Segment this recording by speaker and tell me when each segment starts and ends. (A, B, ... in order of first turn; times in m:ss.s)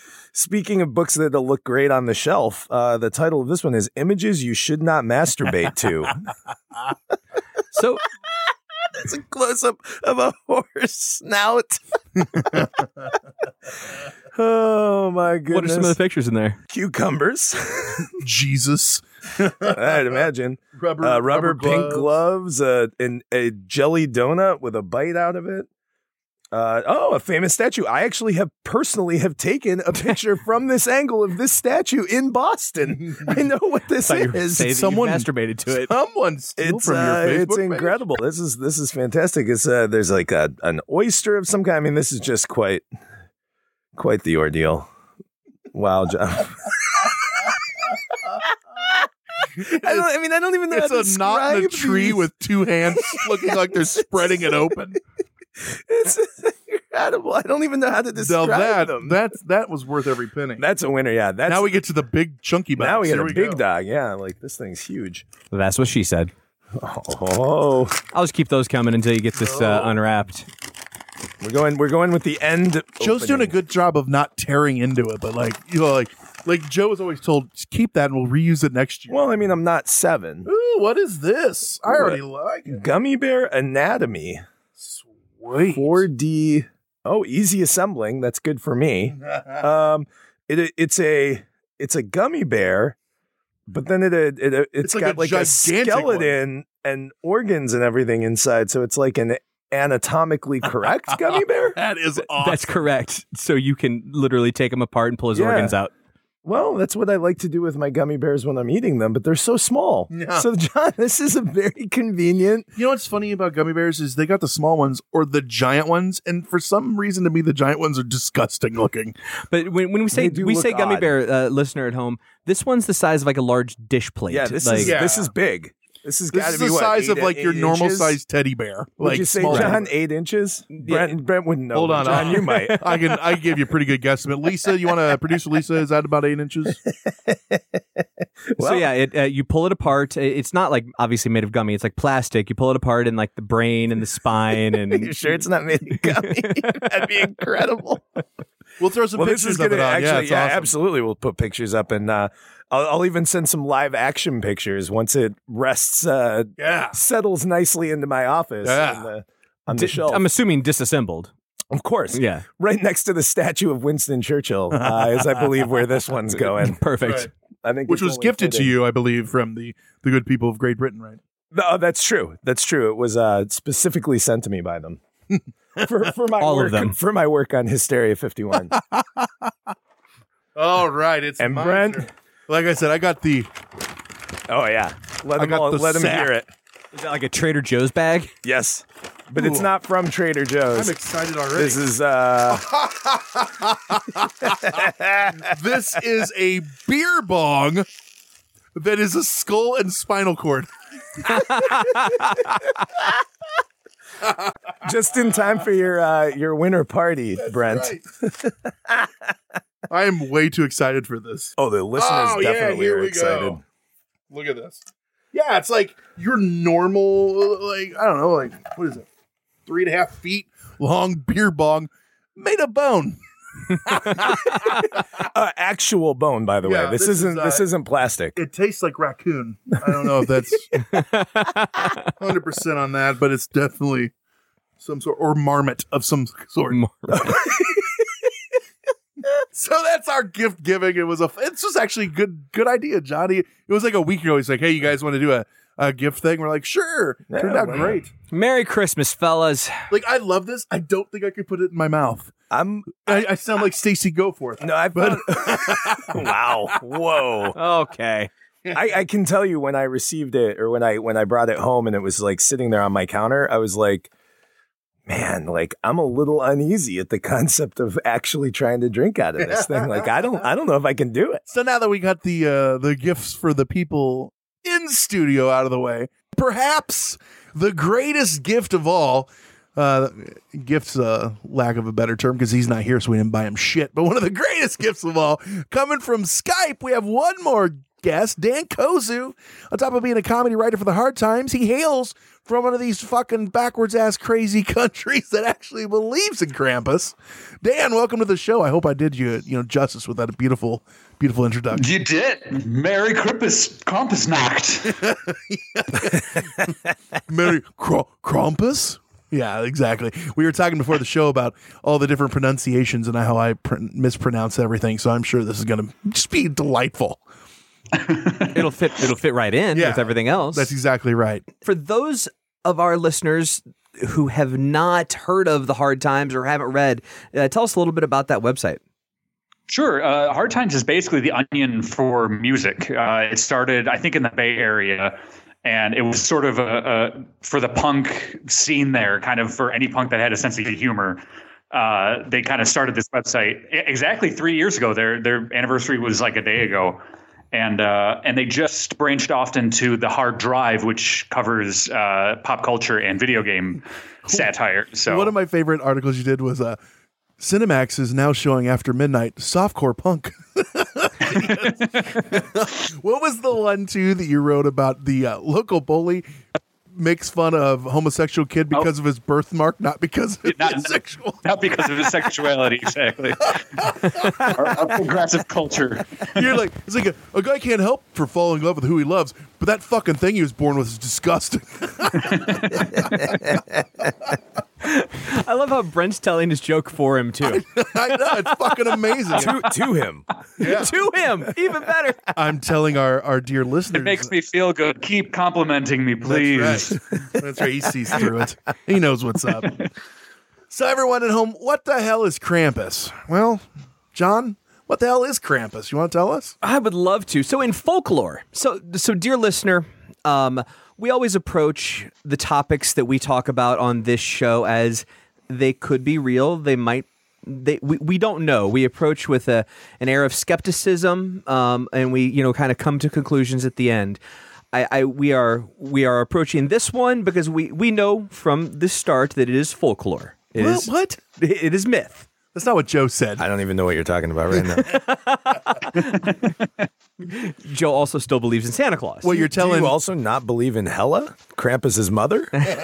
0:00.3-0:06.2 A
0:07.7-0:08.0 B
0:08.9-0:11.8 A
0:12.4-0:12.7 A
0:14.3-0:16.0 A
0:15.5-0:16.6 B
0:16.7-0:18.1 A
0:18.2-0:20.0 C
0:19.7-0:25.7 A
0:20.8-0:22.1 C
0:26.5-0:34.7 A
0:29.9-0:30.2 B
0:34.1-0:35.9 B
0:34.6-0:38.0 C
0:36.6-0:42.9 A
0:44.0-0:44.9 A
0:45.7-0:47.1 A
0:49.6-0:52.3 A
0:49.7-0:50.1 C
0:50.7-0:55.0 C
0:53.0-0:53.7 A
0:55.6-0:59.2 A
0:58.2-1:00.6 C
1:00.6-1:01.7 A
1:01.5-1:03.6 C
1:02.8-1:05.3 A
1:05.5-1:06.3 B
1:06.8-1:08.0 A
1:08.1-1:10.5 B
1:09.4-1:10.0 C
1:11.4-1:13.6 A
1:13.0-1:19.2 C
1:19.1-1:20.5 A
1:20.4-1:22.8 C
1:21.9-1:24.4 A
1:24.8-1:26.0 C
1:25.7-1:33.0 A
1:33.7-1:41.8 A
1:34.8-1:36.4 C
1:41.8-1:42.8 C
1:42.4-1:45.9 B
1:45.4-1:45.7 A
1:46.4-1:52.7 A
1:50.1-1:50.4 C
1:52.8-1:59.2 C
1:59.5-2:05.0 B
2:00.1-2:01.1 A
2:04.3-2:08.2 A
2:04.8-2:05.3 C
2:06.3-2:09.8 C
2:09.0-2:12.9 A
2:09.5-2:09.8 B
2:10.7-2:11.2 B
2:11.7-2:16.8 C
2:12.0-2:13.0 B
2:17.3-2:17.6 A
2:18.6-2:18.9 A
2:18.6-2:25.1 B
2:24.7-2:28.2 A
2:26.0-2:26.8 B
2:28.8-2:30.7 C
2:29.2-2:40.2 A
2:36.6-2:37.0 C
2:38.6-2:39.0 C
2:39.7-2:41.3 B
2:41.7-2:46.8 A
2:42.1-2:42.4 B
2:44.8-2:45.4 C
2:46.7-2:47.3 B
2:47.0-2:47.3 C
2:47.6-2:48.8 A
2:47.9-2:51.2 C
2:51.5-2:55.0 A
2:55.8-2:58.8 A
2:56.4-2:57.0 B
2:58.9-2:59.3 C
3:00.6-3:03.5 C
3:01.4-3:02.1 A
3:04.5-3:06.5 A
3:05.4-3:06.4 C
3:06.9-3:08.3 B
3:08.4-3:11.0 A
3:09.4-3:09.7 C
3:10.8-3:11.8 C
3:11.6-3:12.7 A
3:12.7-3:14.2 C
3:14.4-3:15.4 A
3:15.4-3:17.9 C
3:18.8-3:20.7 C
3:21.3-3:22.4 B
3:24.8-3:29.1 A
3:27.4-3:28.0 C
3:29.9-3:33.6 C
3:31.6-3:33.6 A
3:34.3-3:34.8 C
3:35.3-3:39.1 C
3:39.7-3:43.2 C
3:43.8-3:45.0 C
3:44.5-3:44.8 B
3:45.2-3:48.4 A
3:46.6-3:47.7 C
3:48.4-3:50.7 C
3:50.9-3:52.1 B
3:52.2-3:54.1 C
3:54.8-3:56.8 C
3:56.7-3:57.4 B
3:57.1-3:57.8 A
3:59.5-4:08.1 C
4:07.3-4:08.0 A
4:08.3-4:09.8 B
4:09.9-4:12.3 C
4:12.5-4:13.2 A
4:13.0-4:16.1 C
4:14.6-4:17.6 A
4:17.6-4:18.3 B
4:18.7-4:24.1 A
4:25.1-4:31.4 A
4:31.5-5:01.9 C
5:01.8-5:05.0 D
5:05.0-5:06.3 C
5:07.3-5:17.2 C
5:18.0-5:18.5 D
5:18.6-5:20.7 B
5:19.7-5:21.4 C
5:21.6-5:28.8 B
5:29.7-5:47.0 D
5:47.5-5:55.3 D
5:55.1-5:56.8 C
5:57.4-6:06.3 C
6:06.9-6:11.4 C
6:10.5-6:10.9 D
6:11.4-6:16.4 D
6:13.8-6:14.2 C
6:16.4-6:23.0 C
6:22.2-6:22.6 D
6:24.8-6:27.6 B
6:27.5-6:29.6 C
6:29.3-6:29.7 B
6:29.3-6:30.3 A
6:30.6-6:30.9 C
6:30.6-6:32.2 B
6:32.4-6:34.3 C
6:34.0-6:37.0 D
6:36.2-6:39.8 C
6:40.7-6:46.6 C
6:46.6-7:04.2 B
7:04.7-7:12.3 B
7:10.6-7:11.2 C
7:12.5-7:13.4 C
7:13.4-7:14.9 A
7:14.9-7:16.4 B
7:17.2-7:19.5 B
7:19.2-7:20.0 C
7:19.5-7:22.6 A